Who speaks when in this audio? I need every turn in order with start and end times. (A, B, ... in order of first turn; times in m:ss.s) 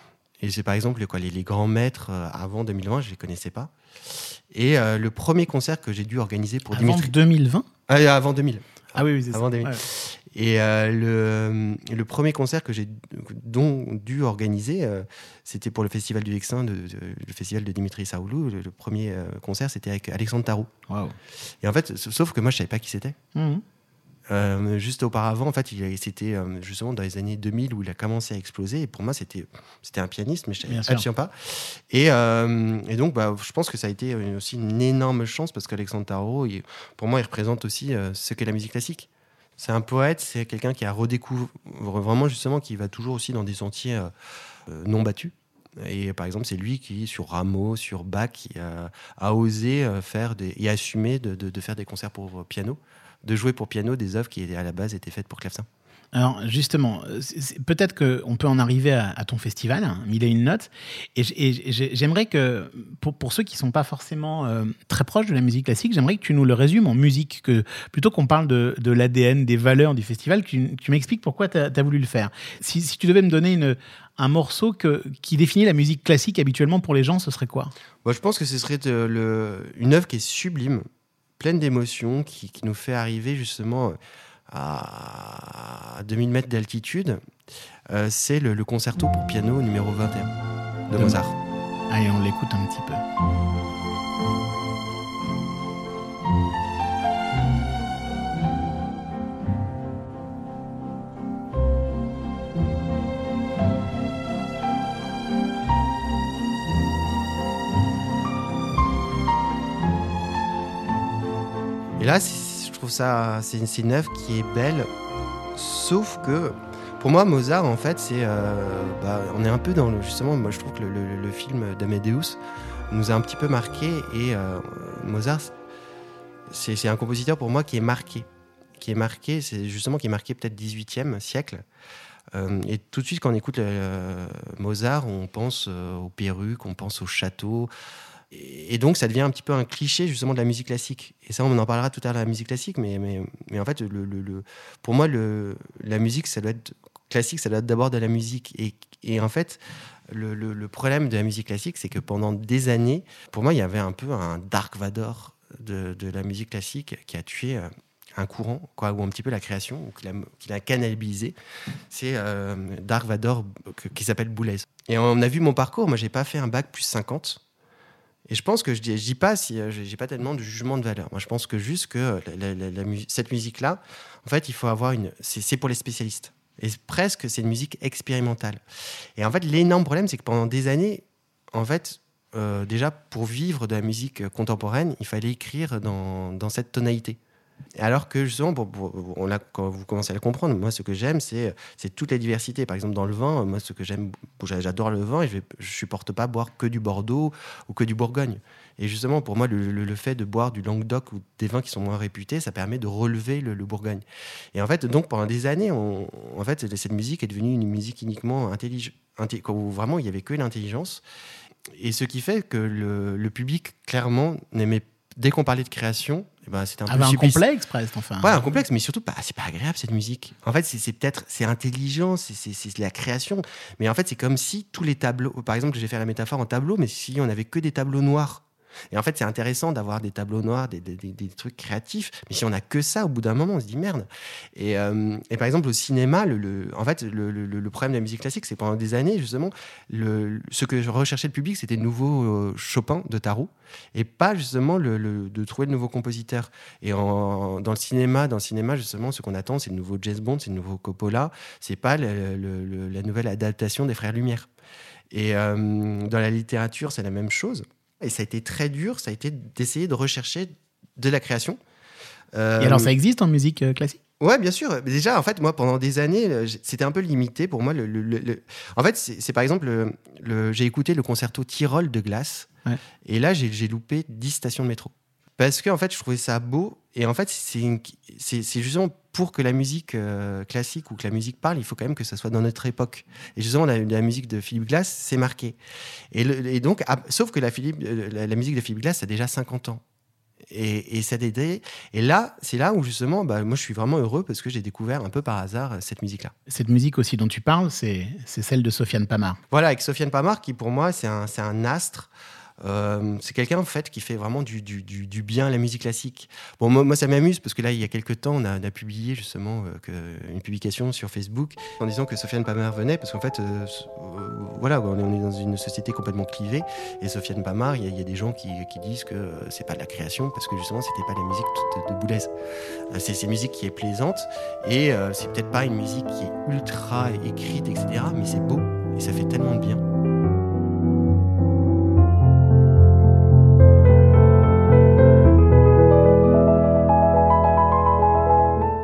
0:00.4-0:07.1 A
0:06.7-0:07.7 B
0:07.9-0:20.7 A
0:09.0-0:09.8 B
0:20.9-0:21.2 B
0:21.6-0:23.2 A
0:23.4-0:23.6 B
0:24.3-0:44.1 A
0:30.7-0:31.0 B
0:44.7-0:55.7 A
0:56.1-1:17.7 B
1:18.0-1:20.8 A
1:21.4-1:24.0 A
1:24.5-1:27.2 A
1:27.9-1:30.3 A
1:30.9-1:31.4 A
1:31.9-1:33.0 B
1:52.0-1:54.9 A
1:55.6-2:05.5 A
2:06.5-2:11.6 A
2:12.3-2:17.7 A
2:18.3-2:41.4 A
2:41.9-2:47.4 A
2:48.3-2:58.6 A
2:59.2-3:07.2 A
3:07.8-3:31.0 A
3:31.8-3:37.4 A
3:36.9-3:38.4 B
3:38.2-4:14.5 A
4:15.1-4:21.6 A
4:22.3-4:22.9 A
4:22.6-4:24.0 B
4:24.2-4:32.5 A
4:33.0-4:45.6 A
4:46.1-4:49.8 A
4:50.5-4:56.3 A
4:56.5-4:59.4 B
4:59.5-5:02.1 A
5:02.6-5:22.3 A
5:22.9-5:29.8 A